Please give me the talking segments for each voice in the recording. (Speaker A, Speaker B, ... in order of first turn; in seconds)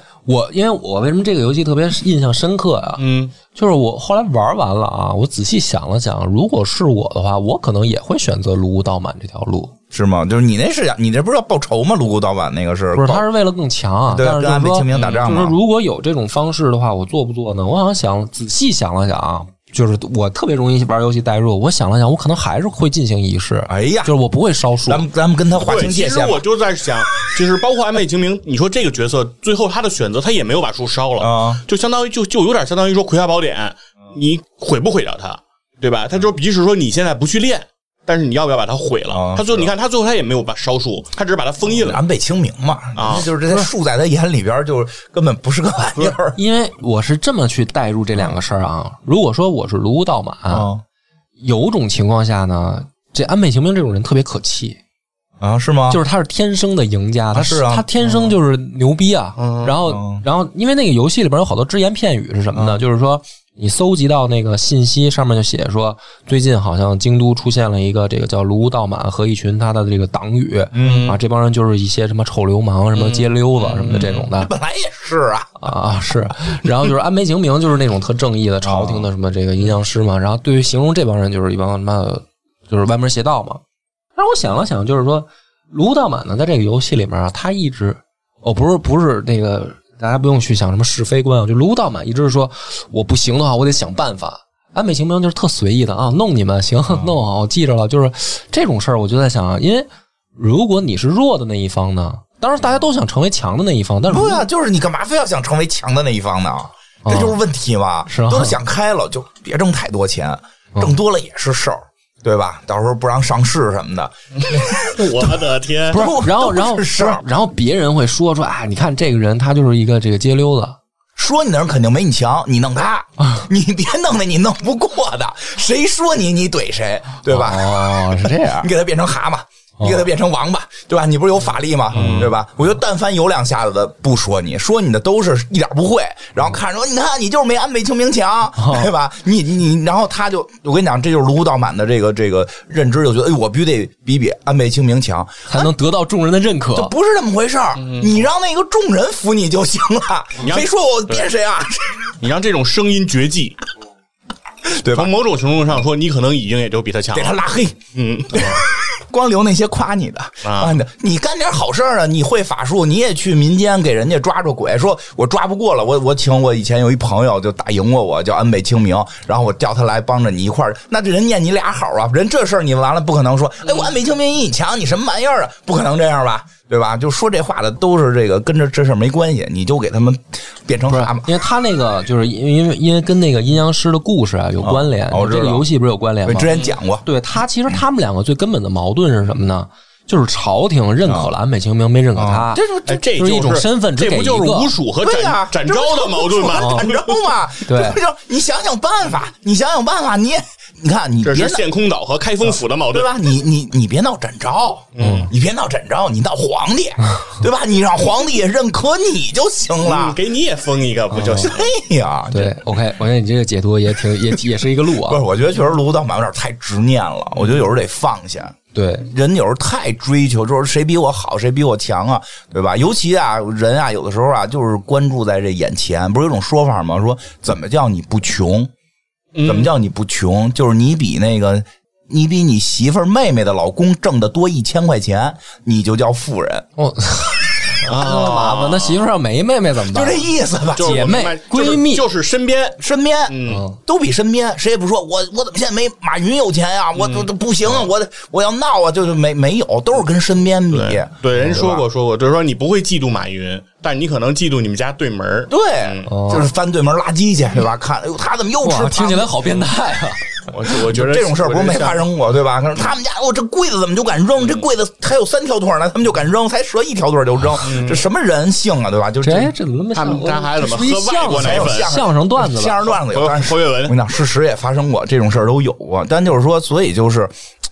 Speaker A: 0.3-9.7, 12.9-25.0, 46.3-50.7, 51.4-54.8, 55.9-74.5, 75.6-83.6, 84.2-104.5, 107.0-107.4, 108.1-108.6, 115.9-120.8, 127.3-128.7, 129.8-130.1, 131.9-132.3, 138.6-138.9, 145.5-146.9, 180.9-186.5, 187.0-194.7, 196.6-196.9, 197.7-198.0, 205.0-205.3, 211.1-211.5, 212.3-215.2, 218.7-219.1, 236.8-242.1, 243.5-243.8, 256.1-256.5, 258.6-260.5, 269.2-272.9
Speaker B: 3.0-3.4, 14.9-15.3, 25.5-42.0, 43.0-43.3, 58.0-58.3, 59.4-59.8, 70.8-71.2, 72.9-74.3, 114.4-116.1, 131.9-132.3, 147.8-148.3, 150.4-151.3, 152.2-153.6, 154.9-158.6, 160.4-160.8, 186.5-186.8, 192.8-197.2, 201.2-203.1, 204.9-205.3, 209.8-211.7, 229.3-229.7, 237.8-239.0, 240.8-243.6, 247.0-247.8, 250.7-256.1, 260.5-262.1, 267.6-268.1, 269.9-272.1, 273.1-274.0
Speaker C: 9.9-13.3, 14.1-15.6, 23.7-24.1, 24.9-26.4, 31.2-31.6, 39.1-39.7, 41.7-46.4, 50.5-50.8, 55.4-56.0, 57.3-57.9, 59.9-60.2, 62.5-62.8, 70.7-71.2, 73.9-75.7, 78.6-79.1, 104.1-115.3, 115.9-117.2, 121.2-145.7, 146.7-152.1, 154.7-155.1, 157.1-157.8, 158.3-181.3, 184.6-185.7, 186.2-187.1, 191.1-191.3, 192.2-193.0, 195.0-201.7, 202.9-210.2, 211.2-212.8, 214.3-218.6, 219.1-228.7, 229.4-236.7, 239.9-241.2, 242.8-251.8, 255.5-259.5, 260.7-269.5, 271.3-277.3